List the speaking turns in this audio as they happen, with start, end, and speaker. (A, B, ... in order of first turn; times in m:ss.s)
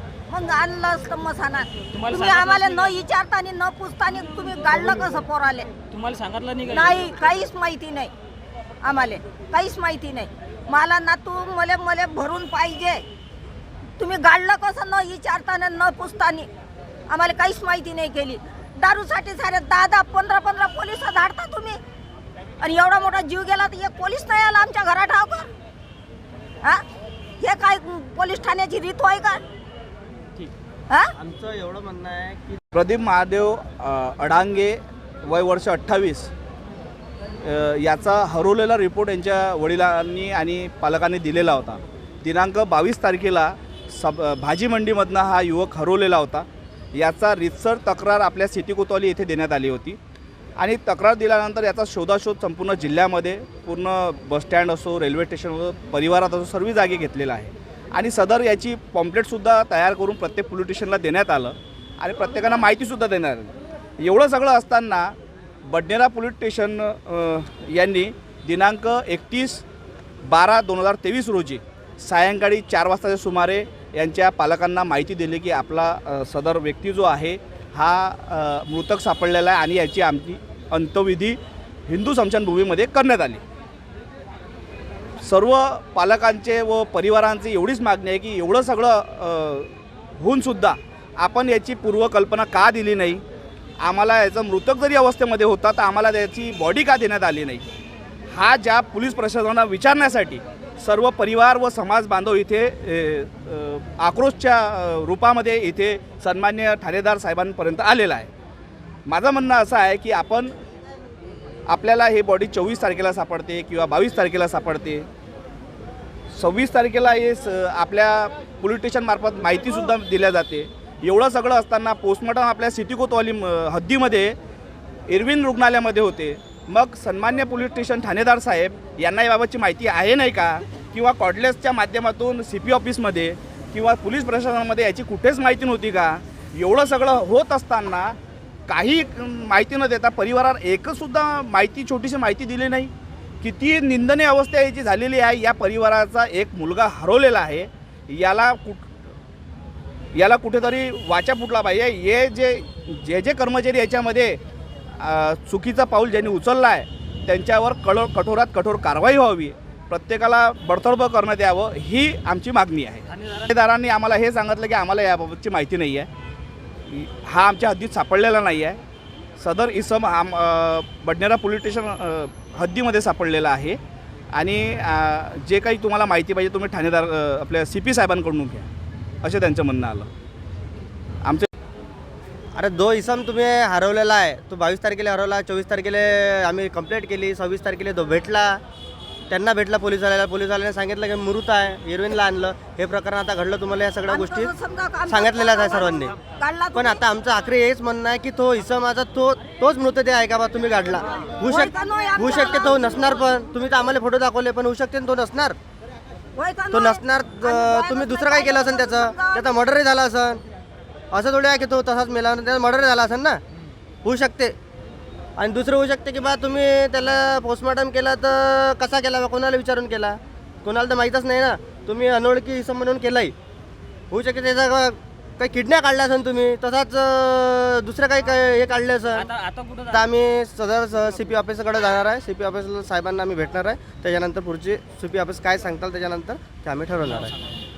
0:00.3-0:05.7 A
0:01.9-0:02.9 B
0:05.9-0:07.0 B
0:06.7-0:08.1 A
0:08.8-0:13.0 A
0:14.0-0:16.5 A
0:17.1-0:21.8 A
0:22.6-0:25.5 A
0:27.4-0:29.4 A
0:31.1-0:32.6 C
0:32.7-0:36.3 D
0:37.4-0:50.0 D
0:50.6-1:05.1 D
1:05.6-1:09.6 D
1:10.2-1:23.4 D
1:25.2-1:33.2 D
1:33.8-1:37.6 D
1:38.3-1:48.3 D
1:49.1-1:50.5 D
1:51.7-1:55.1 D
1:56.3-2:04.4 D
2:05.1-2:18.2 D
2:18.7-2:28.9 D
2:30.1-2:34.4 D
2:35.0-2:46.1 D
2:43.2-2:43.5 B
2:46.9-2:48.8 D
2:49.4-2:53.8 D
2:54.3-2:58.7 D
2:59.2-3:00.1 D
3:02.5-3:08.6 C
3:09.3-3:14.5 C
3:14.1-3:17.0 A
3:15.1-3:16.1 C
3:16.7-3:25.6 C
3:21.4-3:23.2 A
3:26.3-3:29.6 A
3:26.7-3:30.4 C
3:31.1-3:33.4 C
3:34.0-3:34.5 C
3:35.4-3:43.3 C
3:44.1-3:49.3 C
3:49.1-3:50.0 B
3:49.9-3:57.3 C
3:57.0-3:57.6 B